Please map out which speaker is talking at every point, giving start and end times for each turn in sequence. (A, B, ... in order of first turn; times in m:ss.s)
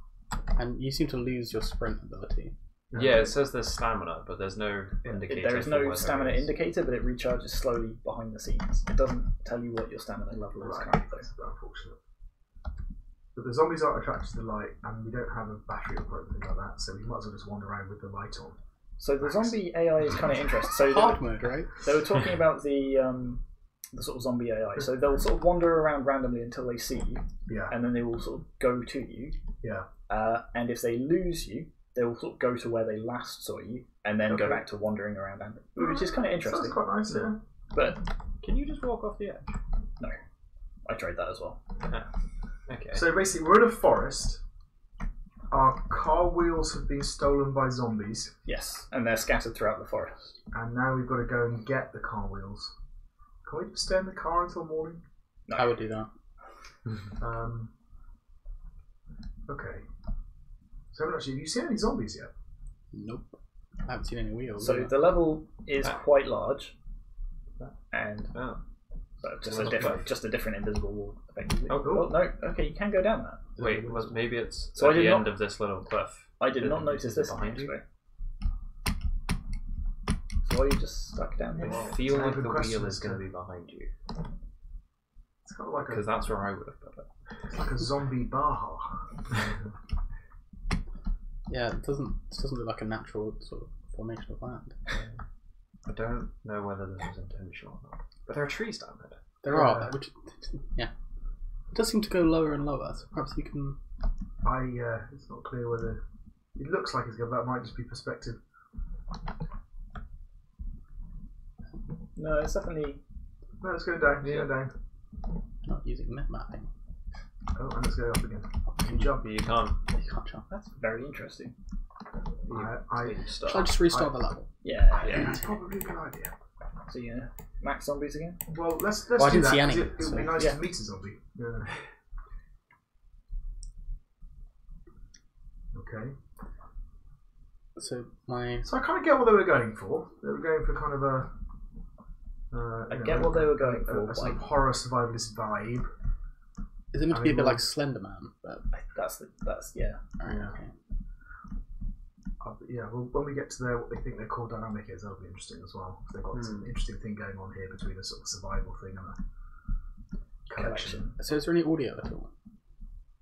0:00.5-0:02.5 A
0:02.9-0:03.4 B
0:03.0-0:06.5 C
0:05.3-0:11.3 D
0:10.6-0:12.0 B
0:13.4-0:18.6 B
0:19.0-0:29.4 D
0:19.2-0:19.6 B
0:20.8-0:21.8 A
0:27.5-0:27.8 B
0:29.6-0:29.9 B
0:30.1-0:36.8 D
0:34.3-0:34.6 B
0:35.8-0:37.4 B
0:37.7-0:38.0 D
0:38.4-0:39.6 C
0:40.8-0:41.6 D
0:42.7-0:43.0 C
0:42.9-0:44.4 B
0:45.5-0:48.3 B
0:48.4-0:50.4 D
0:50.5-0:52.7 B
0:53.5-0:55.0 B
0:55.5-0:55.8 D
0:55.5-0:56.1 A
0:57.2-0:57.7 B
0:59.5-0:59.8 B
1:00.9-1:02.3 B
1:02.9-1:05.0 A
1:04.6-1:06.7 D
1:07.9-1:08.4 D
1:08.3-1:08.6 C
1:09.2-1:13.5 D
1:09.5-1:10.1 C
1:09.6-1:10.0 B
1:11.7-1:12.0 C
1:11.8-1:12.2 B
1:13.6-1:17.8 C
1:14.8-1:15.4 D
1:16.4-1:17.8 D
1:20.4-1:22.0 D
1:21.6-1:23.2 B
1:21.6-1:23.9 C
1:25.5-1:26.1 B
1:25.8-1:27.1 C
1:27.5-1:28.9 B
1:31.5-1:34.8 A
1:35.9-1:39.2 C
1:39.4-1:40.9 A
1:39.5-1:40.0 B
1:41.7-1:43.8 A
1:44.4-1:46.0 B
1:46.6-1:48.4 B
1:52.2-1:53.0 D
1:53.6-1:54.7 B
1:55.6-1:56.7 A
1:57.6-1:59.3 B
1:58.7-1:59.1 A
1:59.0-1:59.8 C
1:59.9-2:00.5 A
2:00.5-2:01.5 D
2:02.5-2:03.8 C
2:02.5-2:03.2 B
2:03.4-2:04.5 A
2:03.7-2:04.2 B
2:04.6-2:05.4 D
2:05.1-2:06.3 B
2:06.9-2:08.4 D
2:08.5-2:11.7 B
2:09.2-2:10.6 A
2:15.7-2:16.2 B
2:17.8-2:18.7 A
2:18.7-2:21.3 B
2:22.5-2:25.9 B
2:22.9-2:24.4 D
2:26.9-2:28.7 A
2:27.1-2:27.6 B
2:28.7-2:30.0 D
2:30.2-2:30.7 A
2:30.3-2:30.5 B
2:32.4-2:39.2 B
2:36.3-2:36.7 C
2:40.5-2:41.1 B
2:40.6-2:41.1 D
2:41.2-2:42.3 A